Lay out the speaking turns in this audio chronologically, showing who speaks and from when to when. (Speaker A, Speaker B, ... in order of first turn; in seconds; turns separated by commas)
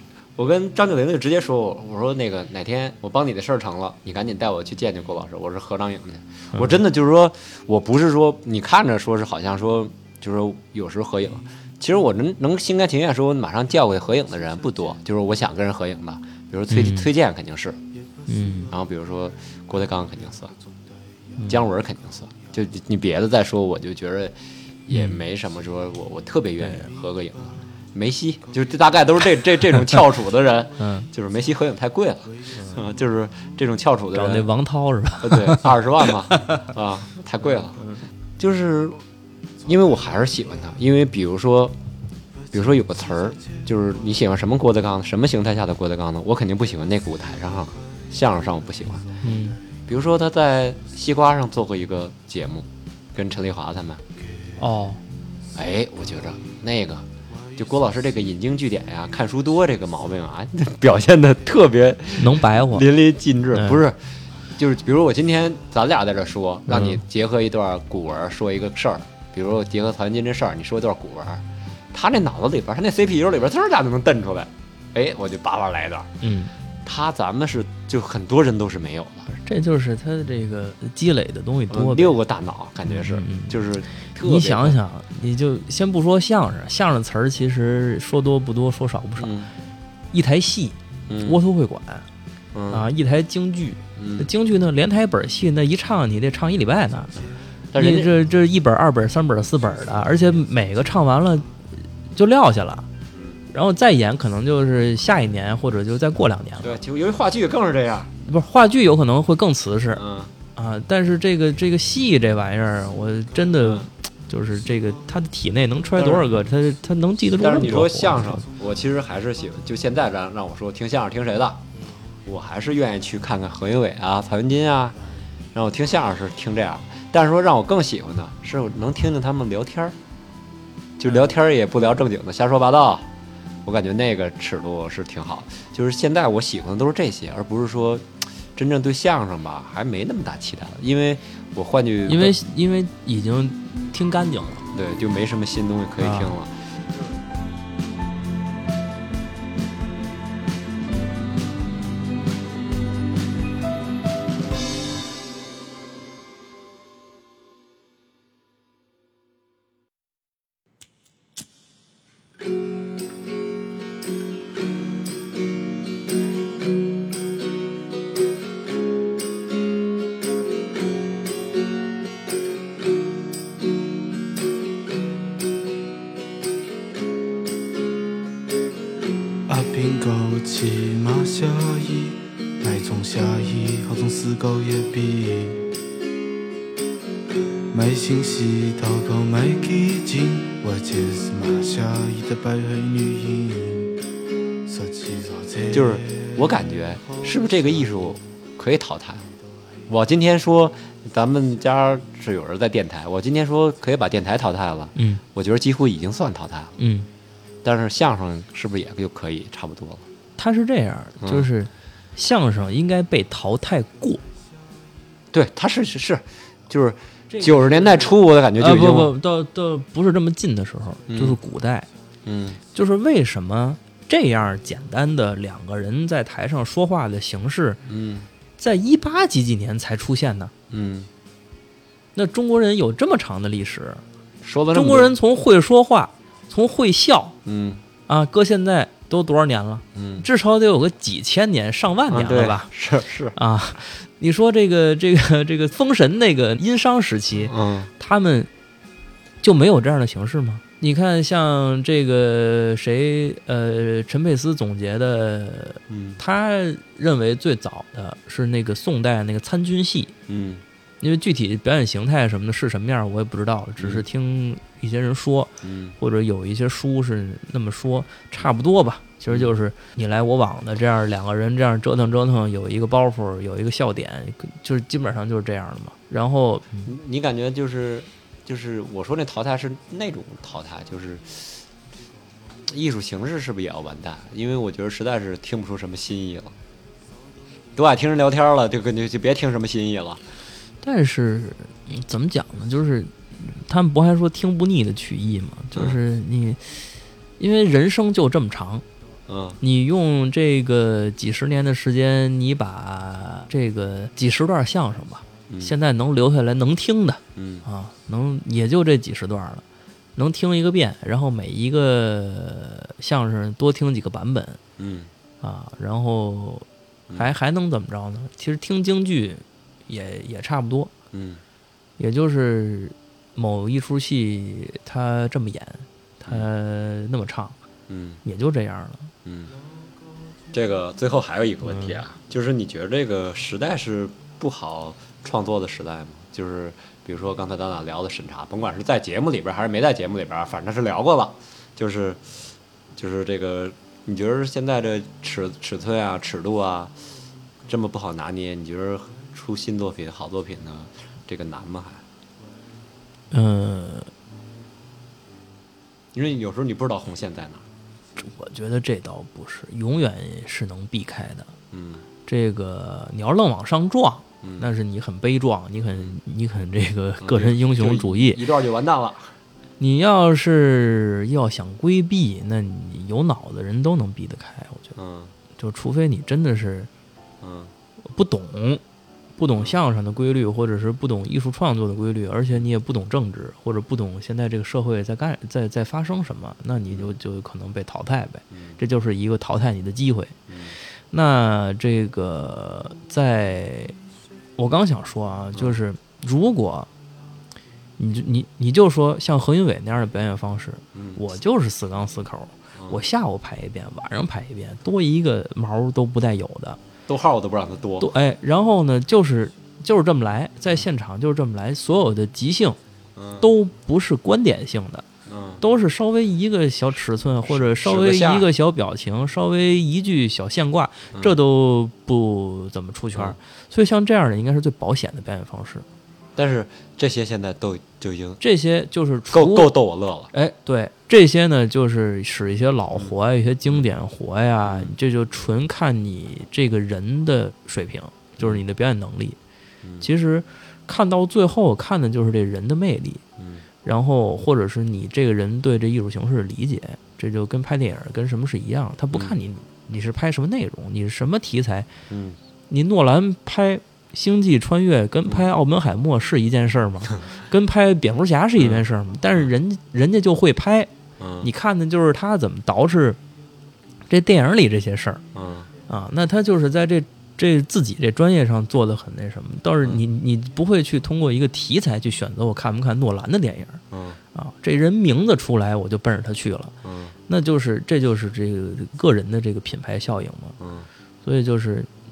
Speaker A: 0.4-17.8, Speaker B: 6.5-6.8, Speaker B: 16.7-17.1, Speaker B: 18.3-18.7, Speaker A: 18.7-20.5, Speaker B: 21.4-21.6, Speaker A: 21.5-34.5, Speaker B: 24.9-25.2, Speaker B: 26.6-26.9, Speaker B: 30.8-31.1, Speaker B: 32.5-32.8, Speaker B: 34.1-36.7, Speaker A: 35.2-37.8, Speaker B: 37.8-38.0, Speaker A: 38.4-39.0, Speaker A: 39.7-41.8, Speaker A: 42.5-49.0, Speaker B: 49.2-49.6, Speaker A: 49.9-54.0, Speaker B: 54.6-55.0, Speaker A: 55.5-64.0, Speaker B: 62.2-62.9, Speaker B: 63.5-63.8, Speaker A: 64.6-76.1, Speaker B: 66.7-67.0, Speaker B: 76.2-76.5, Speaker A: 76.8-79.3, Speaker B: 79.3-82.2, Speaker A: 81.7-84.8, Speaker B: 82.9-83.7, Speaker B: 84.2-89.3, Speaker A: 89.2-89.5, Speaker B: 90.1-92.1, Speaker A: 91.1-91.4, Speaker A: 92.5-92.9, Speaker B: 92.7-97.1, Speaker A: 94.0-94.3, Speaker A: 97.7-98.1, Speaker B: 97.8-101.5, Speaker B: 102.1-102.9, Speaker A: 103.1-103.4, Speaker B: 103.5-106.8, Speaker A: 106.6-108.1, Speaker B: 108.2-110.0, Speaker A: 109.9-110.3, Speaker B: 110.5-118.5, Speaker A: 113.6-113.9, Speaker A: 116.0-116.3, Speaker A: 117.3-121.6, Speaker A: 122.2-125.0, Speaker A: 125.5-130.0, Speaker A: 131.0-133.1, Speaker A: 133.7-142.4, Speaker B: 142.1-144.7, Speaker A: 144.7-146.7, Speaker B: 146.0-146.3, Speaker C: 179.5-185.7, Speaker C: 187.7-194.0, Speaker C: 194.7-197.2, Speaker A: 195.7-199.3, Speaker A: 199.9-206.7, Speaker B: 205.0-205.2, Speaker B: 206.8-207.1, Speaker A: 207.6-210.0, Speaker B: 210.4-214.2, Speaker A: 211.2-211.5, Speaker A: 215.3-219.1, Speaker B: 217.3-221.9, Speaker A: 221.1-221.4, Speaker A: 222.2-222.6, Speaker B: 222.7-227.8, Speaker A: 227.9-228.3, Speaker B: 228.6-230.5, Speaker A: 230.7-231.1, Speaker B: 232.2-234.0, Speaker A: 234.4-235.2, Speaker B: 234.7-237.4, Speaker A: 237.4-237.8, Speaker B: 238.1-242.7, Speaker A: 239.9-240.3, Speaker A: 242.1-243.4, Speaker B: 243.3-248.5, Speaker A: 247.4-247.9, Speaker B: 249.4-260.1, Speaker A: 255.9-256.2, Speaker A: 260.3-260.6, Speaker B: 261.0-276.9, Speaker A: 263.8-264.0, Speaker A: 265.6-266.0, Speaker A: 276.9-281.6, Speaker A: 282.7-286.6, Speaker A: 287.8-290.2, Speaker B: 290.8-298.8, Speaker A: 299.3-299.6, Speaker B: 299.6-309.6, Speaker A: 305.5-305.8, Speaker A: 307.4-307.7, Speaker B: 310.2-314.6, Speaker A: 314.8-315.1, Speaker B: 315.4-320.9, Speaker A: 321.1-321.4, Speaker B: 322.0-327.6, Speaker A: 327.9-328.2, Speaker B: 328.2-329.1, Speaker A: 329.2-329.5, Speaker A: 330.5-342.4, Speaker B: 331.6-332.0, Speaker A: 343.0-346.9, Speaker A: 347.7-352.0, Speaker B: 353.3-354.1, Speaker A: 356.1-357.6, Speaker B: 358.2-361.5, Speaker A: 361.7-362.1, Speaker B: 362.3-368.4, Speaker A: 364.4-364.7, Speaker A: 367.2-369.4, Speaker B: 369.8-374.9, Speaker A: 374.9-375.3, Speaker B: 375.6-376.9, Speaker A: 377.4-377.7, Speaker B: 378.1-378.8, Speaker B: 379.4-390.4, Speaker A: 388.5-388.8, Speaker A: 390.5-390.8, Speaker B: 391.1-393.9, Speaker B: 394.6-396.9, Speaker A: 395.5-395.8, Speaker B: 398.0-406.8, Speaker A: 400.9-401.2, Speaker A: 402.8-403.0, Speaker A: 407.1-408.1, Speaker B: 408.0-412.8, Speaker A: 413.2-413.5, Speaker B: 413.4-415.1, Speaker A: 415.3-415.6, Speaker B: 415.6-425.9, Speaker A: 417.5-418.5, Speaker A: 426.4-428.4, Speaker B: 428.4-429.7, Speaker A: 429.3-430.3, Speaker B: 430.3-439.4, Speaker A: 434.6-434.9, Speaker A: 439.8-440.1, Speaker B: 440.0-443.2, Speaker A: 443.4-443.6, Speaker B: 443.8-451.9, Speaker A: 452.1-452.4, Speaker B: 452.7-460.9, Speaker A: 458.6-458.9, Speaker A: 461.2-461.5, Speaker B: 461.4-463.2, Speaker B: 464.1-465.2, Speaker A: 465.3-465.7, Speaker B: 465.9-473.8, Speaker A: 473.9-474.2, Speaker B: 474.3-476.7, Speaker A: 476.8-477.1, Speaker B: 477.3-480.6, Speaker A: 480.6-480.9, Speaker B: 481.2-481.9